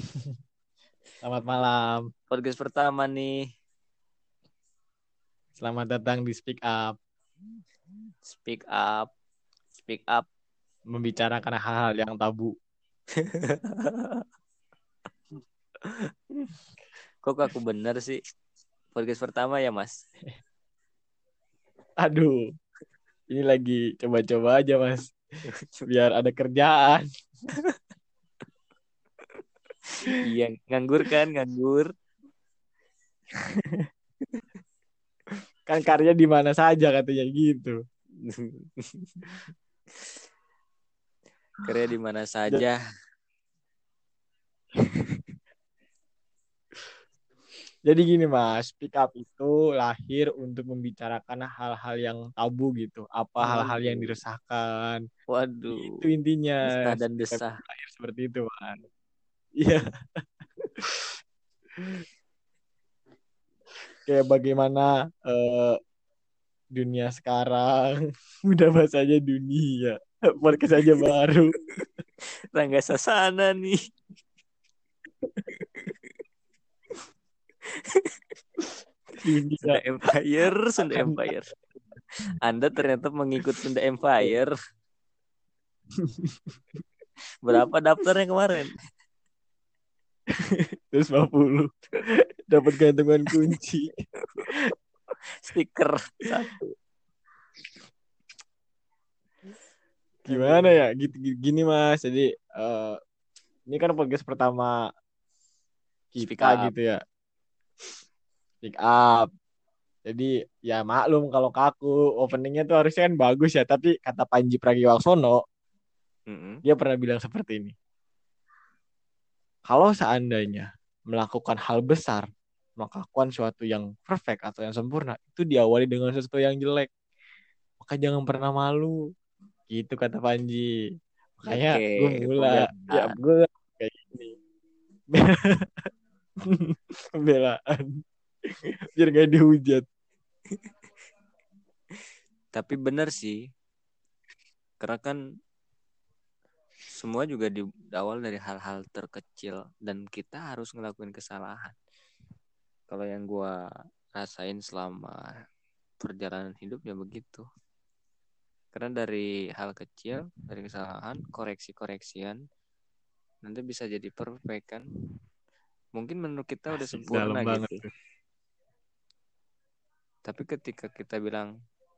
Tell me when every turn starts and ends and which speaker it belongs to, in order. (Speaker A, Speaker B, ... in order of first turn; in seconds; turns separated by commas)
Speaker A: 1.2-2.0, Speaker B: 2.3-3.5, Speaker A: 5.6-7.0, Speaker B: 8.3-9.1, Speaker B: 9.8-10.2, Speaker A: 10.9-12.5, Speaker B: 13.2-14.2, Speaker B: 17.2-18.2, Speaker B: 18.9-20.0, Speaker A: 22.0-22.4, Speaker A: 23.3-25.1, Speaker B: 25.6-25.9, Speaker A: 25.9-27.0, Speaker B: 30.2-31.9, Speaker A: 33.6-33.9, Speaker A: 35.7-37.8, Speaker B: 38.2-39.2, Speaker B: 41.6-42.8, Speaker A: 45.0-45.3, Speaker A: 47.9-55.0, Speaker B: 53.4-54.2, Speaker B: 55.3-56.0, Speaker A: 55.7-56.7, Speaker B: 56.7-57.6, Speaker A: 57.3-58.8, Speaker A: 64.1-65.8, Speaker A: 66.8-71.5, Speaker B: 72.5-73.8, Speaker B: 75.6-75.9, Speaker A: 79.2-79.8, Speaker B: 79.6-81.5, Speaker B: 82.4-84.5, Speaker A: 86.0-86.3, Speaker B: 87.4-88.8, Speaker A: 90.5-91.7, Speaker A: 92.5-93.9, Speaker B: 95.4-96.7, Speaker B: 100.2-100.9, Speaker A: 100.3-103.0, Speaker A: 103.7-104.7, Speaker A: 106.1-107.0, Speaker B: 106.2-106.7, Speaker A: 108.6-109.3, Speaker A: 110.1-115.4, Speaker B: 116.3-116.6, Speaker A: 116.7-117.8, Speaker A: 119.7-122.3, Speaker A: 122.8-126.9, Speaker A: 127.8-128.9, Speaker A: 129.7-130.7, Speaker A: 131.4-134.3, Speaker B: 131.5-133.2, Speaker A: 135.1-135.7, Speaker A: 136.5-137.9, Speaker A: 138.9-139.8, Speaker B: 142.5-143.4, Speaker B: 144.8-145.2, Speaker B: 146.9-151.8, Speaker B: 152.9-153.5, Speaker B: 154.2-155.3, Speaker B: 156.0-157.4, Speaker B: 158.7-162.4, Speaker B: 163.4-164.9, Speaker B: 166.0-167.8, Speaker A: 166.8-167.9, Speaker B: 170.3-171.5